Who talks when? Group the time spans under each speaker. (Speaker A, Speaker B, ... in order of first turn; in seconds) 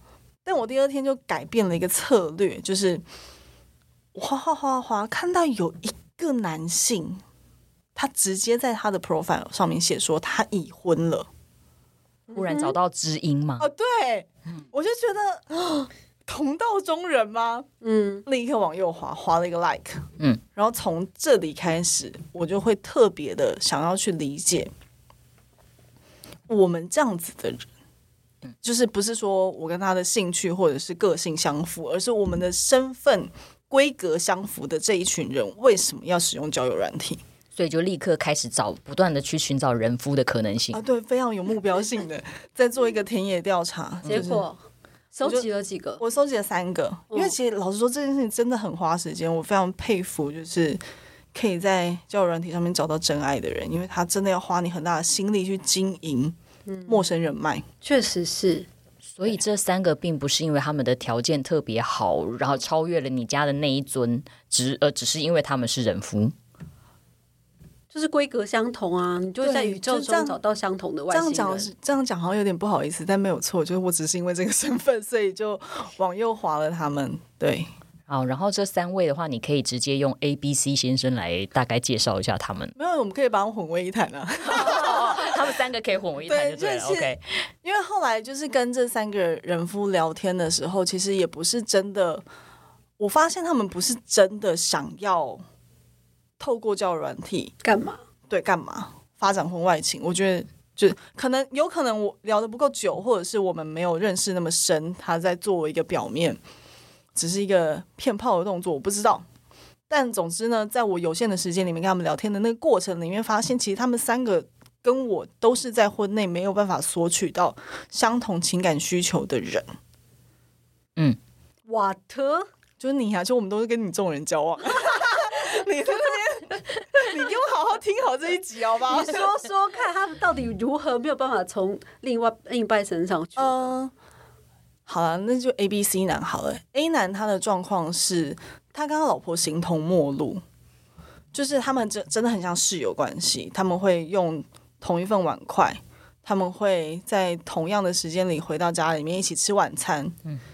Speaker A: 0.4-3.0, 4.1-7.2, 7.9-11.3, 13.6-17.7, 18.2-24.7, 26.5-27.7, 28.6-37.2, 40.7-44.4, 46.0-50.8, 51.3-57.6, 69.4-70.4, 71.1-77.7, 82.8-85.3, 86.2-92.2, 93.0-95.4, 96.4-97.5, 98.3-106.4, 107.1-109.2, 109.9-119.7, 122.8-129.3, 133.4-133.9, 134.9-140.4, 141.3-150.2
Speaker B: 12.3-12.8, 17.8-18.2, 44.1-44.6, 45.1-46.0, 56.7-57.0, 57.8-58.7, 67.9-71.7, 97.6-98.0, 121.7-122.5, 128.9-133.7
Speaker C: 12.3-13.7, 37.5-40.8, 59.1-66.3, 78.1-82.7, 84.5-87.2